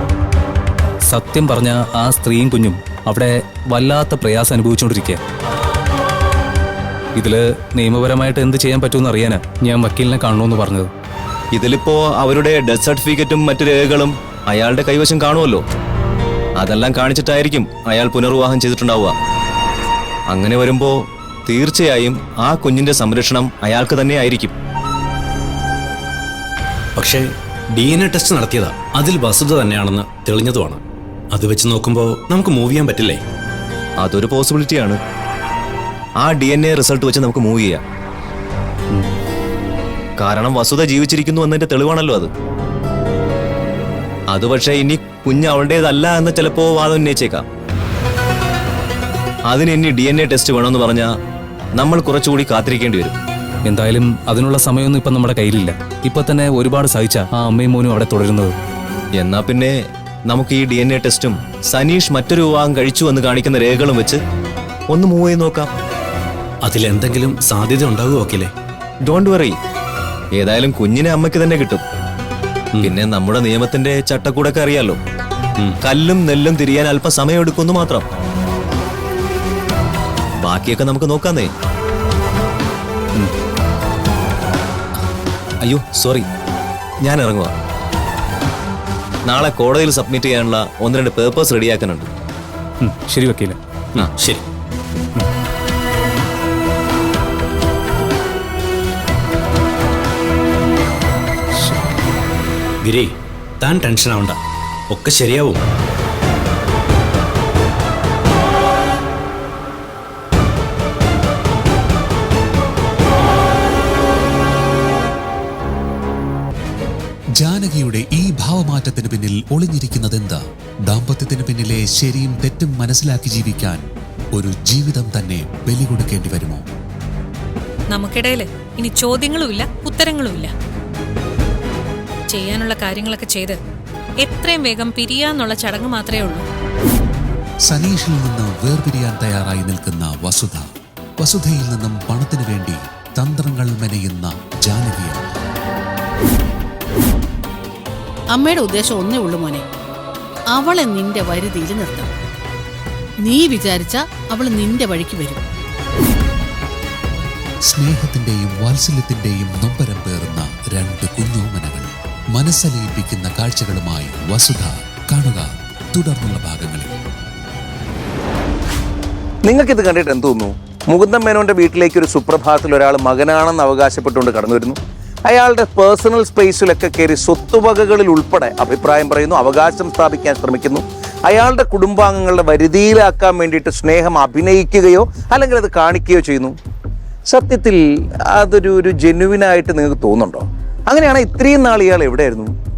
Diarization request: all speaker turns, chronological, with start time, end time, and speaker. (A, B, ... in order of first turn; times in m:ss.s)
0:01.1-0:05.2 A
0:07.2-0:10.9 A
0:11.5-0:15.6 B
0:16.6-0:19.2 B
0:20.3-0:21.0 B
0:21.5-0:24.5 B
0:27.0-0:33.2 C
0:34.0-0:35.0 B
0:36.2-0:37.8 B
0:40.2-0:42.3 B
0:44.3-0:47.4 B
0:49.5-0:51.1 B
0:51.8-0:53.2 B
0:53.7-0:58.6 A
0:59.2-0:59.7 B
1:00.3-1:04.2 B
1:04.9-1:05.7 B
1:06.6-1:08.5 C
1:09.1-1:09.6 B
1:10.4-1:11.8 B
1:12.8-1:15.0 B
1:15.8-1:18.0 B
1:20.4-1:21.5 B
1:25.6-1:26.3 B
1:27.0-1:27.5 B
1:29.3-1:32.1 B
1:32.8-1:34.1 A
1:34.2-1:34.4 C
1:42.8-1:45.6 C
1:57.4-2:03.8 D
2:04.4-2:06.6 D
2:07.9-2:10.5 E
2:12.3-2:13.6 E
2:14.2-2:16.4 E
2:17.7-2:20.7 D
2:21.2-2:25.2 D
2:28.3-2:29.6 F
2:30.5-2:32.1 F
2:33.2-2:35.4 F
2:37.7-2:46.9 D
2:49.5-3:06.6 G
3:07.3-3:07.8 G
3:08.3-3:12.5 G